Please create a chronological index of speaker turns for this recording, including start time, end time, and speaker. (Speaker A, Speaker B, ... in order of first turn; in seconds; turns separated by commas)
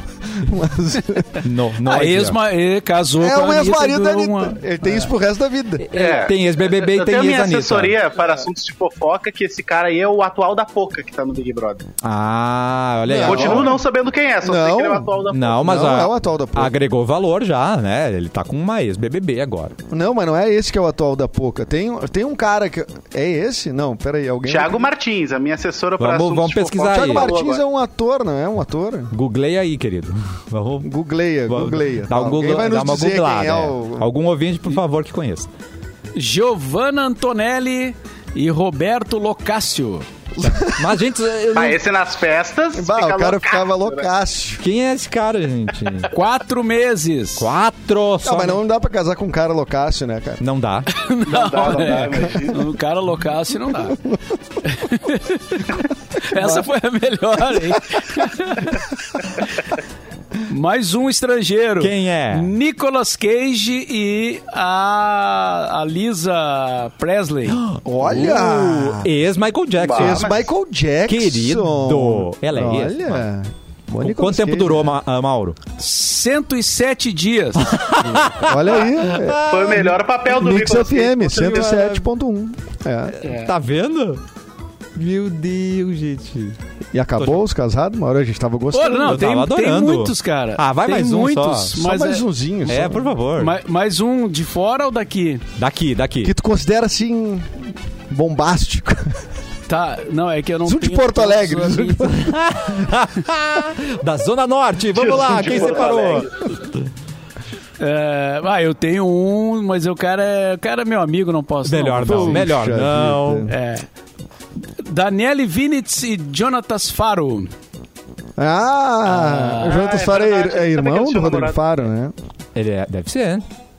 Speaker A: 0.3-1.4, Speaker B: 1.4-2.4, Speaker C: 1.8-5.0, Speaker A: 3.2-5.9, Speaker B: 5.8-8.0, Speaker D: 6.0-11.9, Speaker B: 12.0-13.8, Speaker A: 13.1-13.8, Speaker D: 13.2-15.8, Speaker A: 14.4-16.7, Speaker B: 15.3-19.8, Speaker A: 19.9-24.9, Speaker D: 24.5-27.6, Speaker B: 26.0-27.3, Speaker A: 26.9-29.1, Speaker B: 29.1-30.9, Speaker A: 30.8-34.1, Speaker B: 31.5-35.5, Speaker C: 36.1-40.1, Speaker A: 40.4-40.9, Speaker B: 40.4-41.8, Speaker D: 41.5-44.1, Speaker A: 42.8-44.6, Speaker B: 44.6-46.1, Speaker C: 46.1-47.5, Speaker B: 47.4-48.6, Speaker A: 48.2-50.4, Speaker B: 50.4-50.9, Speaker C: 50.9-54.0, Speaker D: 51.3-52.7, Speaker A: 53.8-54.4, Speaker C: 54.6-58.8, Speaker A: 56.3-56.7, Speaker C: 60.5-67.6, Speaker B: 61.8-62.5, Speaker B: 67.5-70.4, Speaker A: 67.8-69.1, Speaker D: 69.8-70.4, Speaker A: 69.9-74.9, Speaker B: 71.1-73.2, Speaker B: 74.0-75.6, Speaker C: 75.8-78.3, Speaker B: 77.7-80.0, Speaker A: 78.4-83.2, Speaker D: 79.5-81.8, Speaker B: 81.4-82.0, Speaker B: 83.1-84.2, Speaker B: 85.0-86.6, Speaker A: 86.9-89.3, Speaker C: 88.7-92.2, Speaker B: 89.1-91.8, Speaker A: 91.8-93.2, Speaker B: 92.7-93.6, Speaker C: 93.4-95.4, Speaker B: 95.6-96.3, Speaker A: 96.2-99.2, Speaker C: 99.7-102.1, Speaker A: 100.7-102.4, Speaker B: 102.1-106.5, Speaker D: 105.0-106.3, Speaker C: 107.8-112.4, Speaker B: 111.6-113.5, Speaker A: 112.0-113.5, Speaker C: 113.5-113.9, Speaker C: 114.8-117.5, Speaker A: 118.4-122.1, Speaker C: 119.1-119.6, Speaker D: 119.6-121.6, Speaker B: 122.5-123.4